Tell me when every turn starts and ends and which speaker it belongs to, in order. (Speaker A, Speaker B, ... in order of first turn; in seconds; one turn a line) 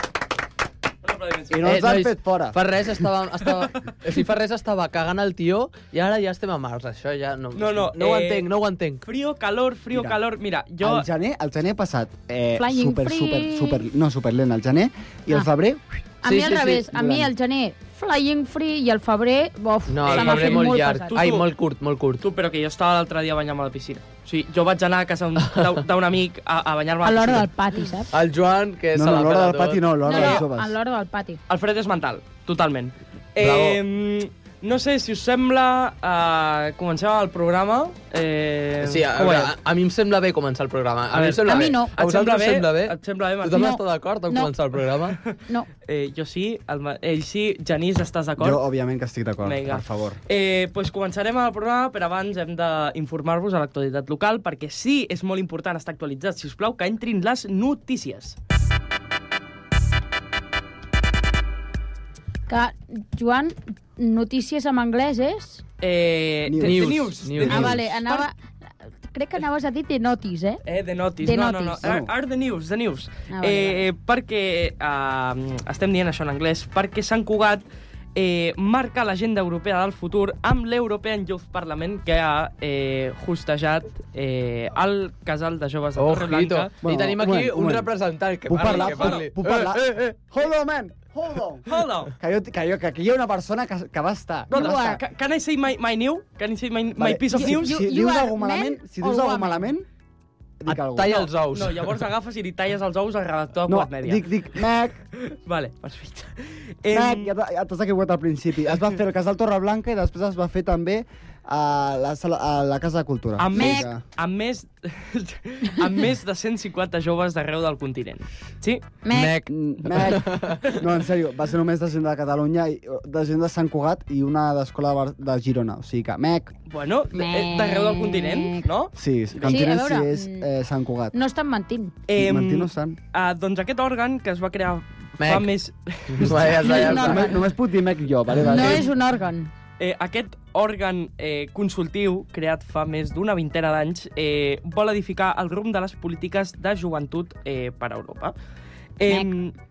Speaker A: 1.0-1.7
Speaker B: 1.5-3.0
Speaker C: 1.6-9.0
Speaker A: 7.5-8.5
Speaker A: 9.0-11.1
Speaker B: 9.9-10.2
Speaker B: 10.8-16.0
Speaker D: 12.6-13.8
Speaker D: 16.2-21.2
Speaker C: 16.2-16.9
Speaker B: 16.9-17.3
Speaker C: 19.9-22.2
Speaker A: 20.0-21.5
Speaker A: 22.2-27.5
Speaker D: 27.0-28.1
Speaker C: 28.1-29.9
Speaker B: 28.9-30.7
Speaker D: 30.0-31.4
Speaker A: 30.1-30.4
Speaker A: 31.5-39.5
Speaker C: 33.4-33.8
Speaker C: 38.8-45.2
Speaker A: 41.1-43.7
Speaker D: 41.5-41.9
Speaker D: 43.5-44.5
Speaker A: 45.8-48.6
Speaker B: 48.4-50.2
Speaker A: 49.4-58.4
Speaker D: 62.5-65.6
Speaker A: 65.8-68.2
Speaker B: 66.5-67.8
Speaker C: 66.6-67.8
Speaker D: 67.4-70.6
Speaker A: 70.6-86.7
Speaker D: 71.2-71.9
Speaker B: 71.8-72.1
Speaker D: 73.3-73.8
Speaker C: 86.0-90.1
Speaker B: 86.8-87.9
Speaker B: 88.5-94.9
Speaker A: 88.7-89.2
Speaker A: 91.7-92.1
Speaker D: 94.5-95.0
Speaker A: 94.5-97.8
Speaker B: 97.0-99.9
Speaker D: 97.3-99.7
Speaker B: 100.6-101.3
Speaker C: 100.7-102.0
Speaker A: 101.1-104.6
Speaker B: 103.7-105.0
Speaker A: 105.2-107.3
Speaker B: 106.9-114.0
Speaker A: 113.4-118.8
Speaker D: 113.5-113.9
Speaker D: 119.0-119.4
Speaker C: 119.1-120.7
Speaker B: 119.5-126.5
Speaker A: 126.7-129.5
Speaker D: 127.1-128.7
Speaker B: 128.9-131.2
Speaker D: 129.4-130.5
Speaker D: 131.1-131.9
Speaker A: 132.1-137.0
Speaker B: 132.2-133.0
Speaker C: 135.2-135.5
Speaker C: 136.1-137.3
Speaker D: 136.6-137.4
Speaker B: 136.7-138.8
Speaker D: 138.4-139.5
Speaker A: 139.8-148.3
Speaker A: 149.0-149.5